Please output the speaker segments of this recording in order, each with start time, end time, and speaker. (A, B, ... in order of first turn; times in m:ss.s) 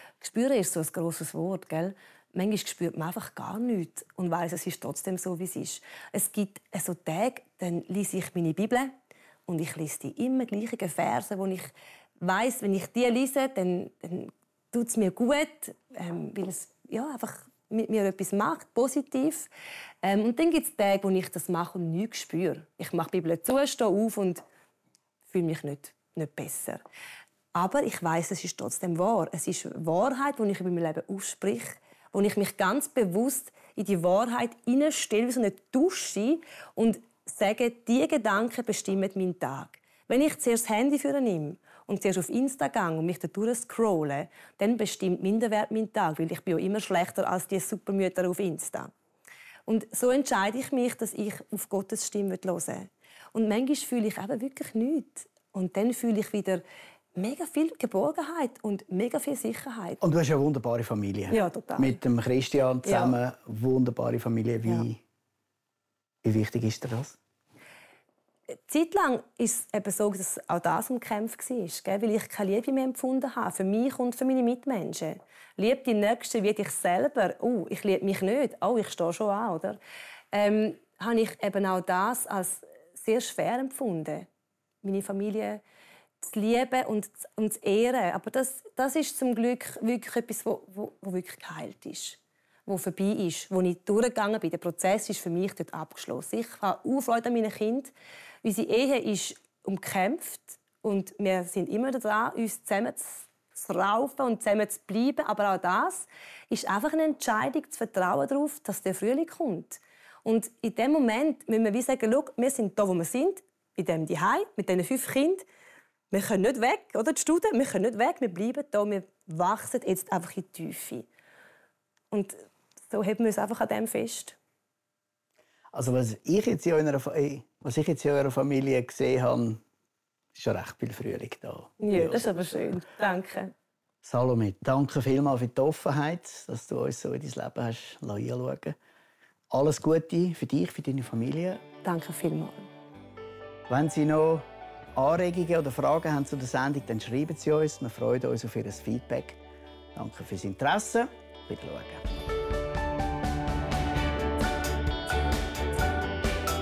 0:00.2-0:08.9 A
0:09.5-0:19.5 A
0:20.0-0:24.4 A
0:25.3-0:26.8 A
0:27.5-0:48.9 A
0:49.7-0:56.6 A
0:57.2-1:00.0 A
1:00.0-1:05.0 B
1:01.3-1:02.0 A
1:02.8-1:03.2 A
1:06.2-1:07.2 B
1:08.5-1:19.8 A
1:20.3-1:24.3 A
1:24.8-1:25.6 A
1:26.2-1:37.9 A
1:38.4-1:55.4 A
1:56.1-2:01.1 A
2:02.1-2:04.4 A
2:05.7-2:09.6 B
2:10.3-2:12.3 B
2:11.8-2:13.5 A
2:14.0-2:18.8 B
2:19.5-2:21.6 B
2:21.8-2:22.7 A
2:23.7-2:29.4 B
2:29.9-2:32.2 B